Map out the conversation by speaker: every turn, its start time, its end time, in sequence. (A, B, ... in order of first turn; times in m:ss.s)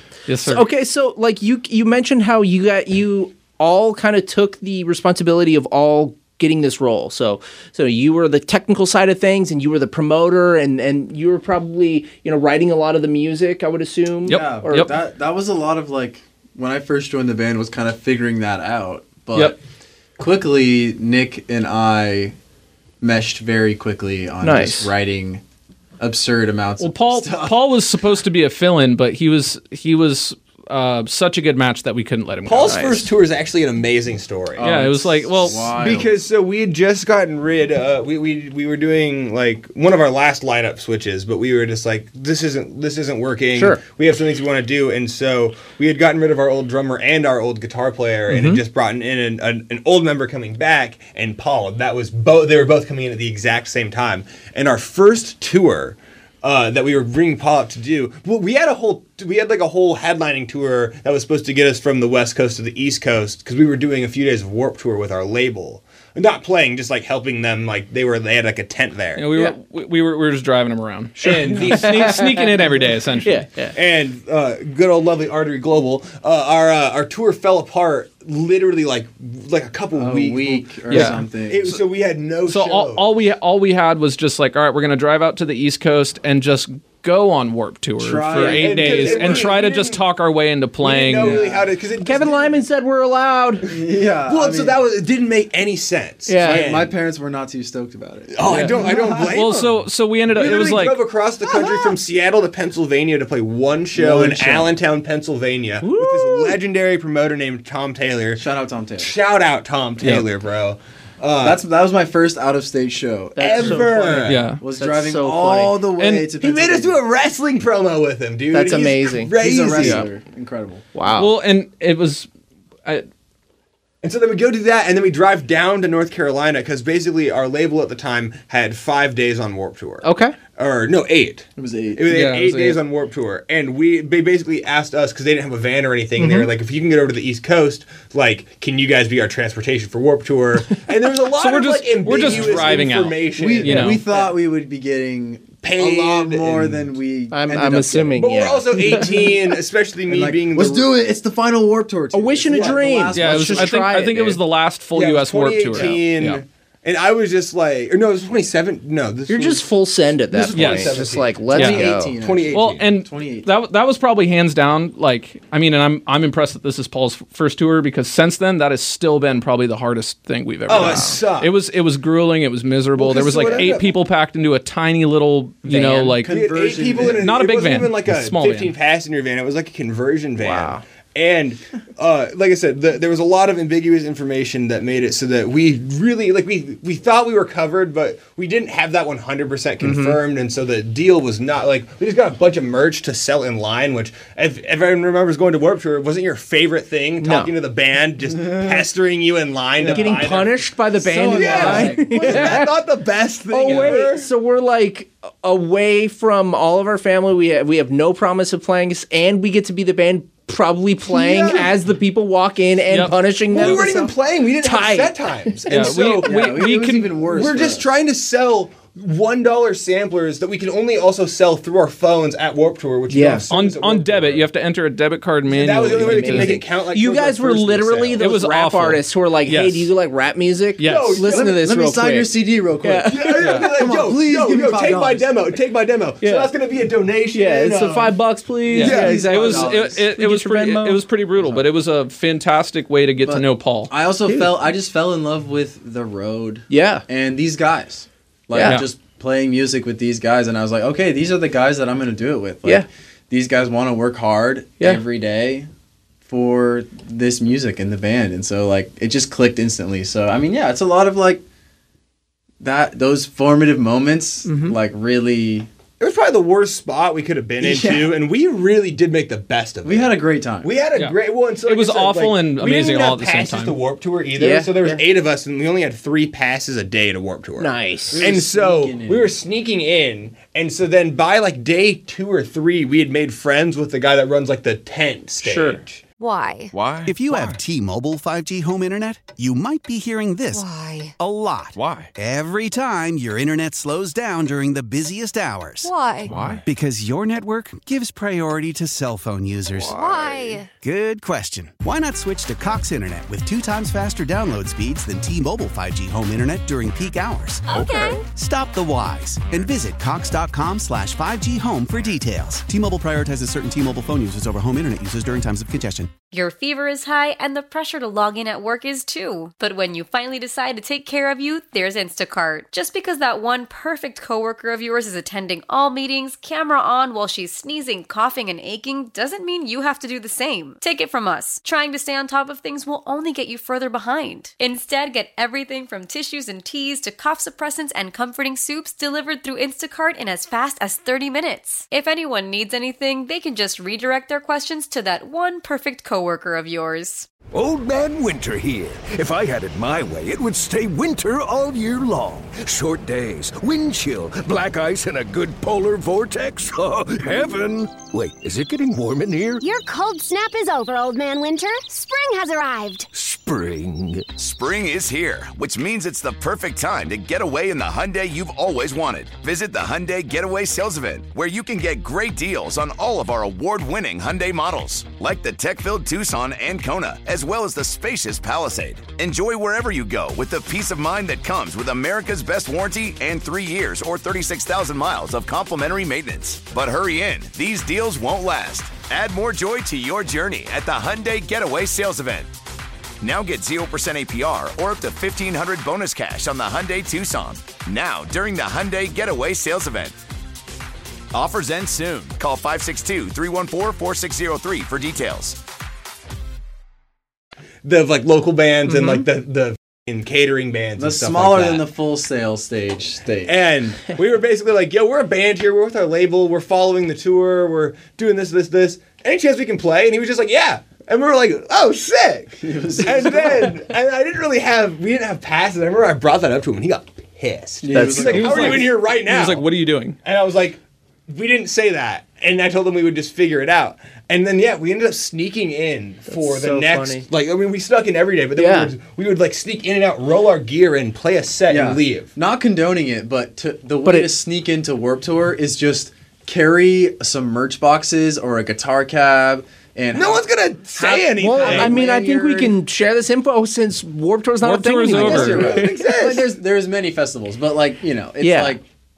0:00.3-0:00.7 A
0:00.4-0:14.9 B
0:14.3-0:14.9 A
0:14.3-0:19.6 C
0:20.2-0:22.3 C
0:23.0-0:25.4 C
0:24.4-0:24.9 B
0:26.0-0:27.8 C
0:26.8-0:32.9 A
0:32.5-0:34.8 D
0:32.6-0:33.0 B
0:34.6-0:36.1 C
0:34.6-0:35.7 A
0:35.4-1:09.3 D
0:43.6-0:43.8 B
0:48.3-0:48.6 B
1:09.2-1:13.4 A
1:11.2-1:12.4 D
1:11.7-1:12.6 B
1:13.2-1:13.8 B
1:13.7-1:23.1 D
1:19.9-1:21.8 C
1:20.9-1:21.8 A
1:22.4-1:31.4 A
1:28.0-1:29.6 C
1:28.4-1:30.0 D
1:30.8-1:32.6 D
1:31.2-1:31.7 C
1:32.0-1:33.7 B
1:33.6-1:34.8 C
1:34.3-1:37.0 D
1:36.3-1:36.6 B
1:36.4-1:39.4 C
1:38.3-1:39.7 D
1:38.5-1:41.0 A
1:40.3-1:48.4 D
1:43.9-1:44.7 C
1:45.8-1:46.6 B
1:48.4-1:49.1 C
1:49.0-1:51.6 D
1:50.0-1:50.3 A
1:51.4-1:57.0 C
1:53.4-1:55.8 B
1:53.4-1:54.4 D
1:54.3-1:54.6 A
1:56.0-1:56.3 A
1:56.4-2:00.1 D
1:58.5-2:00.1 B
1:59.4-2:00.8 C
2:00.9-2:01.3 B
2:01.1-2:02.3 A
2:04.0-2:24.2 D
2:10.0-2:10.4 B
2:11.6-2:12.1 C
2:12.1-2:12.8 A
2:16.2-2:16.5 B
2:21.3-2:24.0 A
2:22.1-2:28.2 C
2:25.6-2:26.9 D
2:27.3-2:29.1 B
2:28.2-2:30.9 D
2:28.9-2:29.3 C
2:30.1-2:33.9 C
2:32.1-2:34.4 B
2:32.5-2:32.8 D
2:33.2-2:36.4 A
2:34.9-2:39.7 D
2:39.3-2:42.2 B
2:40.3-2:42.9 D
2:40.5-2:41.0 A
2:41.5-2:43.5 C
2:41.5-2:41.9 A
2:42.5-2:56.4 A
2:50.7-2:51.5 D
2:53.0-2:54.0 D
2:55.7-2:56.2 B
2:56.1-2:57.3 C
2:56.3-3:24.3 D
2:57.0-2:58.7 A
3:00.4-3:00.8 B
3:09.8-3:10.2 B
3:17.2-3:17.5 B
3:19.8-3:22.6 C
3:19.9-3:22.8 B
3:23.5-3:35.6 B
3:23.7-3:23.9 C
3:31.1-3:31.7 D
3:32.9-3:33.8 A
3:33.5-3:36.7 D
3:35.7-3:37.1 A
3:36.2-3:37.9 C
3:37.3-3:44.5 D
3:43.1-3:43.4 B
3:43.5-3:46.6 A
3:45.5-3:48.2 D
3:45.9-3:53.6 B
3:48.2-3:49.9 A
3:50.8-3:51.3 A
3:50.8-3:51.5 D
3:51.3-3:55.4 C
3:53.1-3:58.2 D
3:53.4-3:53.7 A
3:56.2-3:56.5 B
3:57.3-4:01.0 B
3:58.7-4:03.9 A
3:58.8-4:00.1 C
4:03.2-4:15.7 C
4:04.3-4:04.5 B
4:06.7-4:07.0 B
4:08.5-4:08.8 B
4:08.6-4:08.9 A
4:16.2-4:21.4 C
4:22.6-4:25.7 C
4:24.4-4:24.8 B
4:26.0-4:46.0 D
4:29.8-4:30.7 C
4:30.9-4:33.8 A
4:34.4-4:35.0 B
4:37.6-4:38.2 B
4:38.1-4:39.4 C
4:45.4-4:45.8 B
4:46.2-4:46.8 E
4:46.7-4:47.6 F
4:47.0-4:50.7 G
4:50.5-4:51.2 E
4:51.2-4:55.9 G
4:51.8-4:52.1 F
4:55.8-4:56.4 E
4:56.2-4:56.6 F
4:56.5-5:16.1 G
4:59.8-5:00.6 F
4:59.8-5:00.7 E
5:07.7-5:08.2 E
5:16.3-5:47.3 H
5:47.5-5:59.6 F
5:59.6-6:03.1 I
6:03.1-6:04.4 F
6:04.4-6:32.5 J
6:33.2-6:40.2 J
6:41.3-6:45.6 J
6:47.8-6:51.9 D
6:48.9-6:49.2 B
6:51.0-6:53.6 C
6:53.5-7:09.7 D
7:02.6-7:03.8 C
7:07.8-7:08.9 C
7:07.9-7:08.8 B
7:08.3-7:10.2 A
7:10.2-7:22.3 D
7:16.3-7:17.3 B
7:18.6-7:18.9 B
7:21.7-7:30.5 C
7:24.0-7:24.3 B
7:30.1-7:32.1 D
7:31.0-7:35.9 B
7:31.5-7:32.7 C
7:34.6-7:35.8 A
7:35.1-7:38.8 C
7:35.4-7:36.5 D
7:38.4-7:38.8 B